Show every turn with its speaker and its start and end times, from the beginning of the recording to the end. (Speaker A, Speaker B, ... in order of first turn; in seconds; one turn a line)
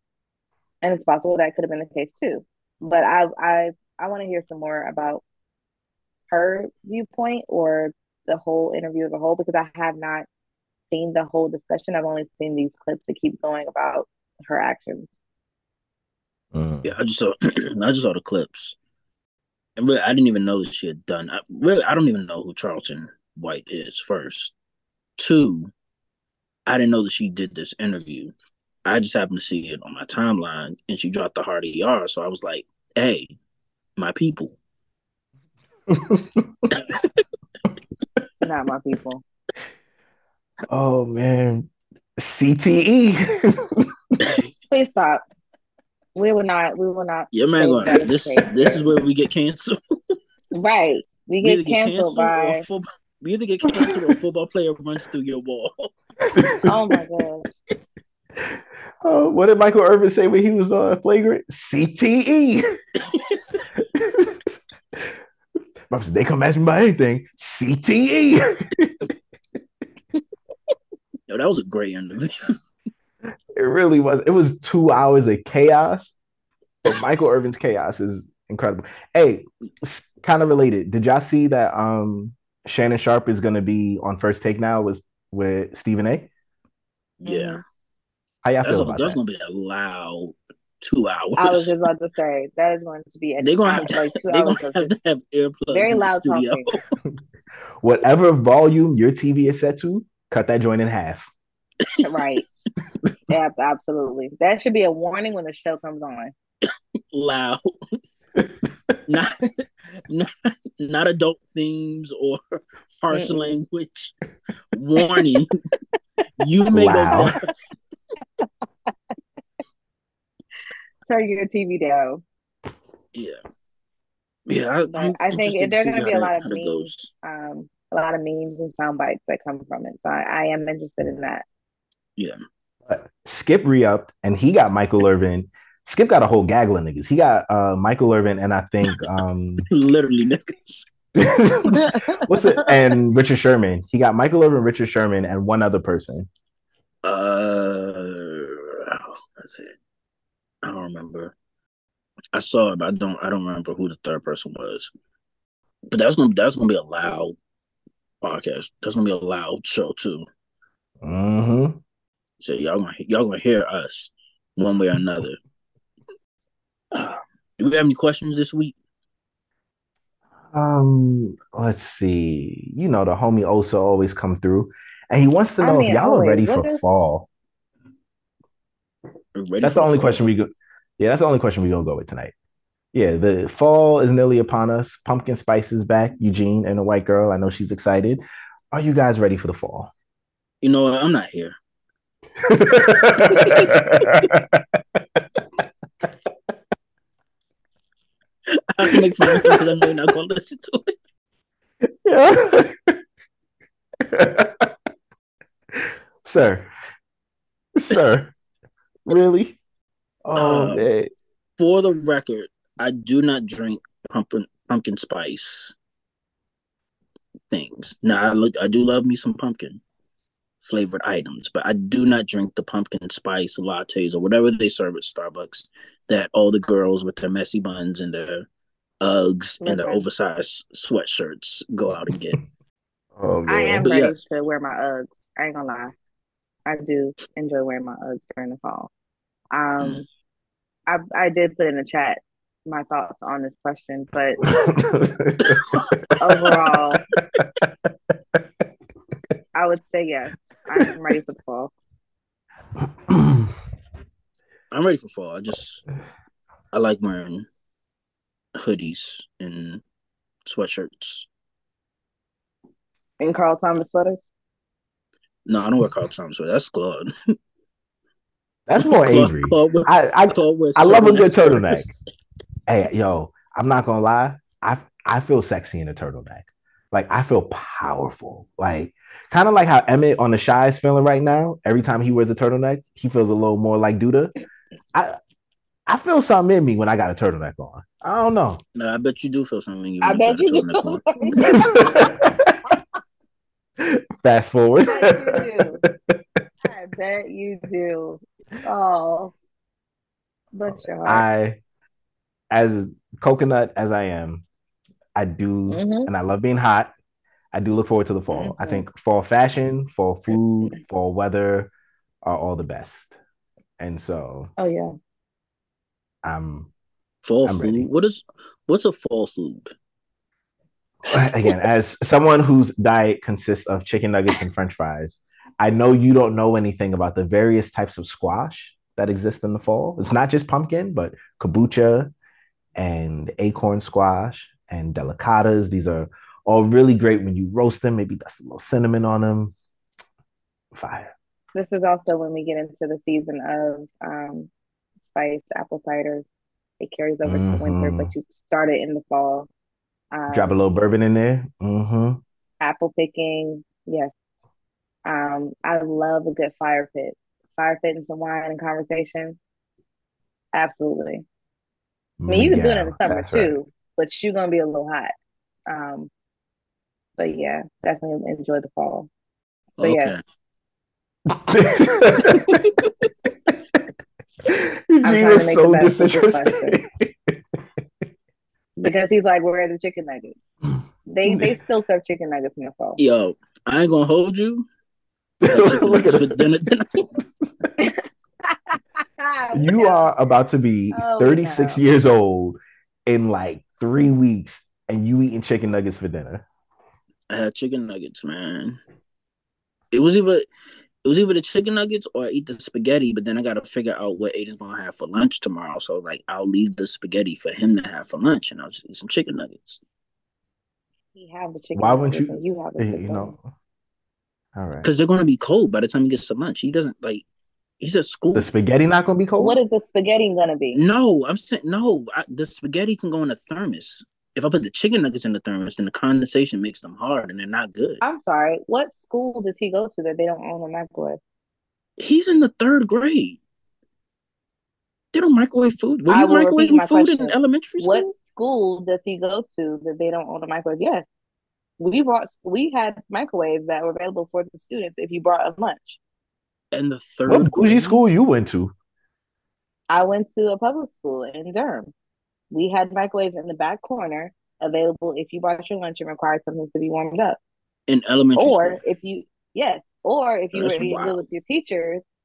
Speaker A: 0.8-5.2
Speaker A: 6.3-10.3
Speaker A: 10.9-15.1
Speaker B: 16.5-16.9
Speaker C: 16.8-18.8
Speaker C: 19.8-24.5
Speaker C: 25.2-25.7
Speaker C: 26.7-28.3
Speaker C: 28.9-33.4
Speaker C: 34.0-34.6
Speaker B: 35.9-36.7
Speaker C: 36.7-37.2
Speaker A: 38.4-39.2
Speaker B: 40.7-43.9
Speaker C: 44.2-44.5
Speaker A: 44.7-45.2
Speaker A: 46.1-48.5
Speaker C: 47.3-49.8
Speaker A: 50.5-52.6
Speaker C: 51.4-56.0
Speaker B: 53.7-54.1
Speaker B: 56.2-56.7
Speaker A: 56.6-57.5
Speaker B: 58.5-62.7
Speaker C: 63.1-63.6
Speaker B: 64.0-65.1
Speaker B: 65.9-69.1
Speaker C: 71.3-72.6
Speaker B: 73.6-76.2
Speaker B: 76.8-86.3
Speaker C: 87.2-87.6
Speaker A: 87.2-87.6
Speaker B: 88.4-89.2
Speaker C: 88.6-91.7
Speaker A: 91.4-94.9
Speaker C: 93.4-96.8
Speaker A: 95.7-96.7
Speaker B: 97.8-101.3
Speaker C: 101.9-102.3
Speaker A: 102.0-102.5
Speaker A: 103.3-106.3
Speaker C: 107.1-107.7
Speaker C: 109.1-112.4
Speaker C: 113.0-114.1
Speaker A: 113.1-113.6
Speaker C: 114.7-115.5
Speaker C: 116.4-117.5
Speaker B: 116.7-117.3
Speaker A: 121.1-122.2
Speaker C: 123.1-123.4
Speaker C: 124.5-127.1
Speaker A: 124.9-131.4
Speaker B: 132.9-139.7
Speaker C: 139.7-140.9
Speaker B: 141.2-146.3
Speaker A: 141.7-142.3
Speaker C: 147.0-149.8
Speaker C: 150.6-151.3
Speaker C: 152.3-154.9
Speaker C: 155.9-157.4
Speaker C: 158.2-160.3
Speaker B: 161.0-161.8
Speaker C: 162.4-165.4
Speaker C: 166.9-168.8
Speaker B: 170.5-177.3
Speaker A: 175.6-176.8
Speaker C: 179.3-180.3
Speaker B: 179.6-182.3
Speaker B: 182.9-189.9
Speaker C: 190.6-191.6
Speaker B: 192.4-195.2
Speaker C: 193.3-193.7
Speaker C: 198.6-200.9
Speaker B: 198.8-199.7
Speaker B: 202.1-203.0
Speaker B: 204.0-204.7
Speaker B: 205.8-206.7
Speaker B: 207.8-208.3
Speaker B: 209.1-209.6
Speaker B: 210.2-211.1
Speaker C: 210.3-210.8
Speaker C: 211.6-215.8
Speaker C: 217.5-219.8
Speaker C: 220.6-228.5
Speaker C: 229.0-232.4
Speaker A: 229.6-230.0
Speaker B: 233.2-233.9
Speaker A: 233.5-235.9
Speaker C: 233.8-234.1
Speaker A: 236.7-238.9
Speaker A: 239.5-240.1
Speaker A: 240.9-244.4
Speaker B: 244.4-246.6
Speaker C: 245.5-246.0
Speaker A: 246.2-247.0
Speaker B: 247.4-248.4
Speaker A: 249.6-251.7
Speaker B: 252.8-253.6
Speaker C: 254.7-255.8
Speaker C: 256.7-257.5
Speaker C: 258.6-259.8
Speaker C: 260.4-261.3
Speaker A: 263.2-264.2
Speaker C: 265.5-267.1
Speaker B: 268.7-271.9
Speaker C: 268.8-272.0
Speaker B: 272.7-284.3
Speaker B: 285.9-288.6
Speaker C: 288.8-291.4
Speaker A: 290.0-292.2
Speaker B: 291.4-292.8
Speaker B: 293.8-296.4
Speaker A: 294.9-295.8
Speaker A: 296.6-299.3
Speaker A: 300.5-301.3
Speaker B: 300.7-301.6
Speaker B: 302.5-304.4
Speaker B: 305.1-306.9
Speaker A: 305.7-306.1
Speaker B: 307.5-311.7
Speaker A: 308.3-308.8
Speaker B: 312.2-313.2
Speaker B: 313.8-314.5
Speaker A: 314.6-314.9
Speaker B: 316.2-316.7
Speaker C: 317.2-319.7
Speaker B: 317.4-317.9
Speaker B: 321.1-332.1
Speaker B: 332.8-339.6
Speaker B: 340.7-341.1
Speaker A: 341.5-344.5
Speaker A: 345.1-346.3
Speaker A: 346.8-349.5
Speaker B: 347.2-348.1
Speaker A: 350.1-350.5
Speaker B: 350.3-352.2
Speaker A: 352.6-354.1
Speaker A: 355.1-359.4
Speaker A: 360.5-361.2
Speaker B: 362.2-363.6
Speaker A: 362.3-365.1
Speaker A: 365.7-366.1
Speaker A: 367.2-369.1
Speaker A: 369.8-370.1
Speaker C: 369.8-370.2
Speaker B: 371.3-372.7
Speaker C: 372.3-372.9
Speaker B: 374.5-377.4
Speaker A: 375.0-376.8
Speaker A: 378.8-380.4
Speaker B: 380.6-381.5
Speaker A: 381.1-383.0
Speaker C: 383.0-384.7
Speaker B: 385.4-386.4
Speaker C: 385.5-387.1
Speaker A: 388.5-390.1
Speaker B: 389.5-396.4
Speaker A: 390.9-391.8
Speaker C: 397.3-398.8
Speaker C: 399.9-400.5
Speaker C: 401.0-409.8
Speaker A: 411.1-413.3
Speaker B: 411.8-413.5
Speaker B: 414.6-414.9
Speaker C: 414.8-417.2
Speaker C: 417.8-418.5
Speaker B: 418.3-419.6
Speaker A: 419.4-420.8
Speaker C: 420.8-428.0
Speaker A: 428.0-431.2
Speaker C: 432.0-433.4
Speaker C: 435.1-438.1
Speaker A: 436.1-441.1
Speaker A: 441.8-446.0
Speaker C: 446.7-448.0
Speaker B: 447.3-448.7
Speaker A: 449.9-451.9
Speaker A: 452.5-457.4
Speaker C: 457.9-458.8
Speaker A: 458.4-462.0
Speaker C: 460.5-461.2